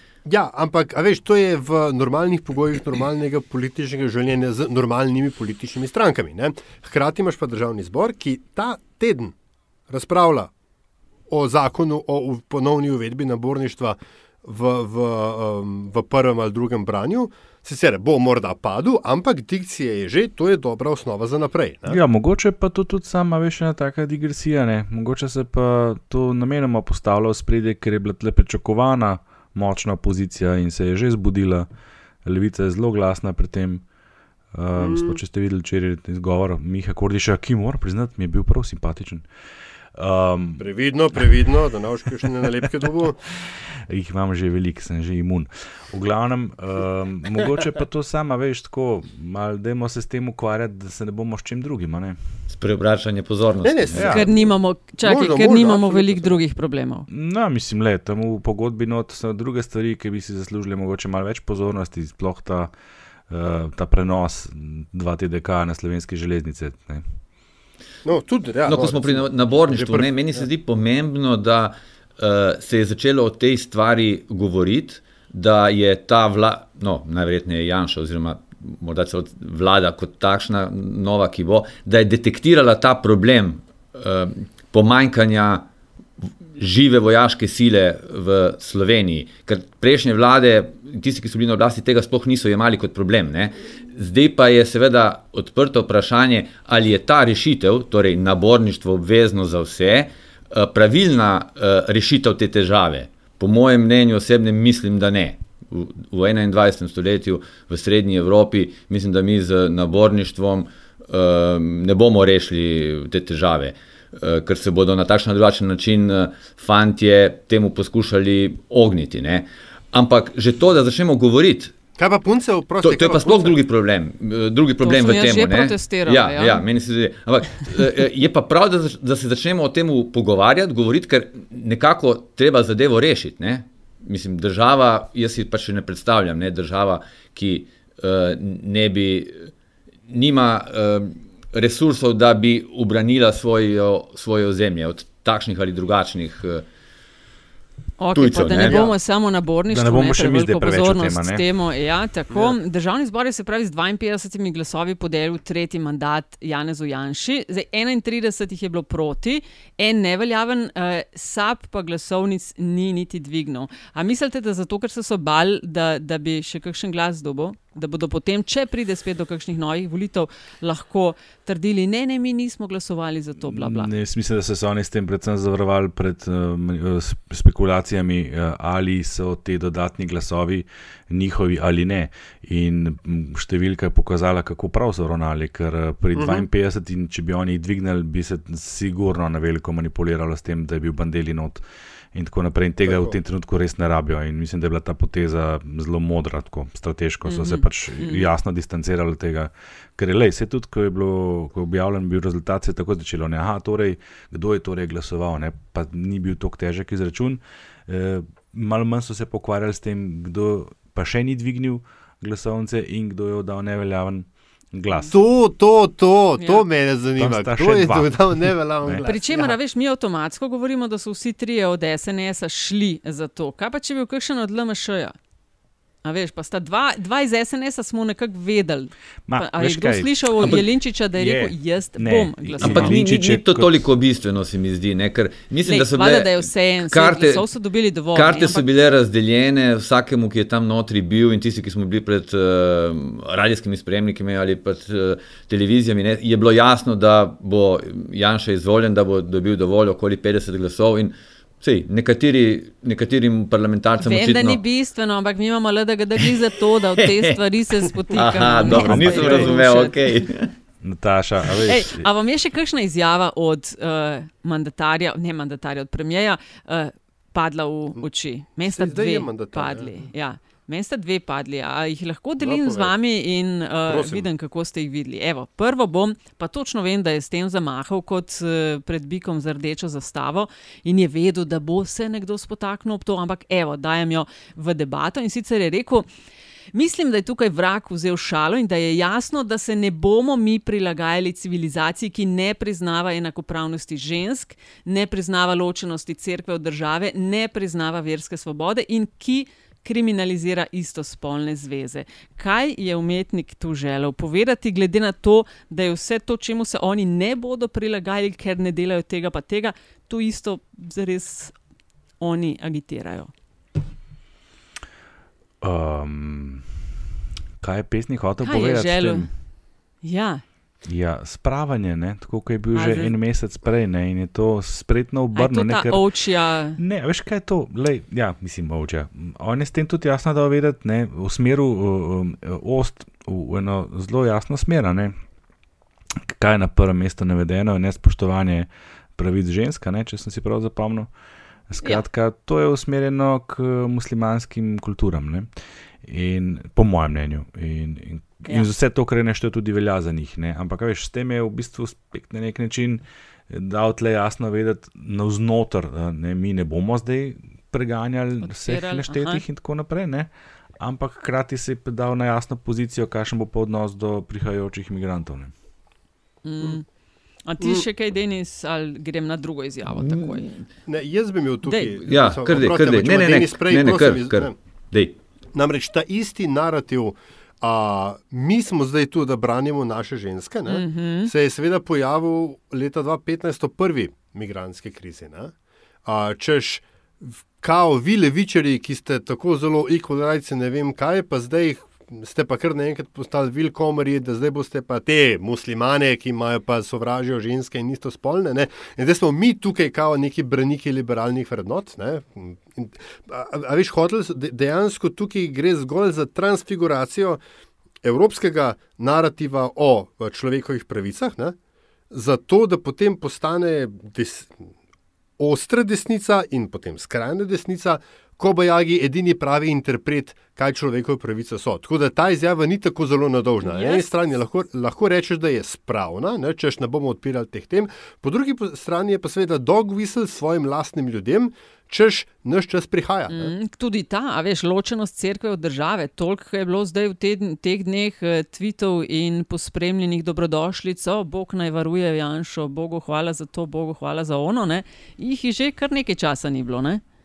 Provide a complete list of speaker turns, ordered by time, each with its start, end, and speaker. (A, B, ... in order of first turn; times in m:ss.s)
0:00.2-0:09.3 A
0:09.9-0:10.5 A
0:11.3-0:22.0 A
0:21.9-0:31.7 B
0:32.2-0:33.8 B
0:34.5-0:39.2 B
0:34.8-0:35.2 A
0:39.9-0:40.7 B
0:40.6-0:43.2 A
0:43.4-0:52.2 B
0:52.5-0:54.1 C
0:53.6-0:56.4 A
0:53.9-0:54.3 B
0:54.0-0:57.0 D
0:57.1-1:02.7 B
1:03.3-1:07.0 B
1:08.0-1:10.4 A
1:08.6-1:25.6 C
1:26.6-2:01.7 C
2:02.0-2:03.6 A
2:02.8-2:19.5 C
2:04.8-2:06.6 D
2:20.1-2:26.6 C
2:28.0-2:53.9 D
2:28.1-2:28.8 C
2:28.6-2:28.9 A
2:29.7-2:31.4 B
2:53.4-3:11.6 B
3:06.1-3:06.5 A
3:12.1-3:35.1 B
3:12.8-3:13.2 A
3:17.2-3:18.3 D
3:35.1-3:39.5 A
3:36.4-3:36.6 D
3:37.2-3:39.1 B
3:39.0-3:45.1 D
3:46.0-3:53.0 D
3:49.3-3:53.7 B
3:52.6-3:57.5 C
3:55.6-3:58.6 D
3:58.1-4:14.6 C
4:14.0-4:20.0 D
4:17.0-4:17.4 C
4:18.1-4:20.5 C
4:18.6-4:19.5 B
4:20.8-4:22.1 B
4:21.6-4:46.1 D
4:28.6-4:29.9 A
4:32.4-4:32.9 A
4:33.8-4:34.3 A
4:46.7-5:11.5 D
5:12.2-5:13.3 D
5:15.6-5:16.7 B
5:17.6-5:19.3 B
5:18.4-5:19.3 D
5:20.0-5:20.4 D
5:20.8-5:26.0 B
5:22.7-5:23.1 D
5:25.3-5:26.8 D
5:26.8-5:35.2 B
5:36.2-5:41.1 B
5:41.7-5:45.5 B
5:46.0-6:05.5 B
5:58.4-5:59.4 D
6:06.4-6:06.8 D
6:07.4-6:10.6 D
6:07.6-6:07.8 A
6:10.0-6:10.4 C
6:10.9-6:14.5 A
6:11.7-6:12.0 D
6:12.1-6:15.2 C
6:15.5-6:25.5 A
6:20.7-6:21.3 D
6:26.0-6:47.4 A
6:48.0-6:51.6 A
6:52.1-6:54.7 A
6:55.4-7:13.5 A
7:03.6-7:04.0 D
7:13.3-7:27.0 D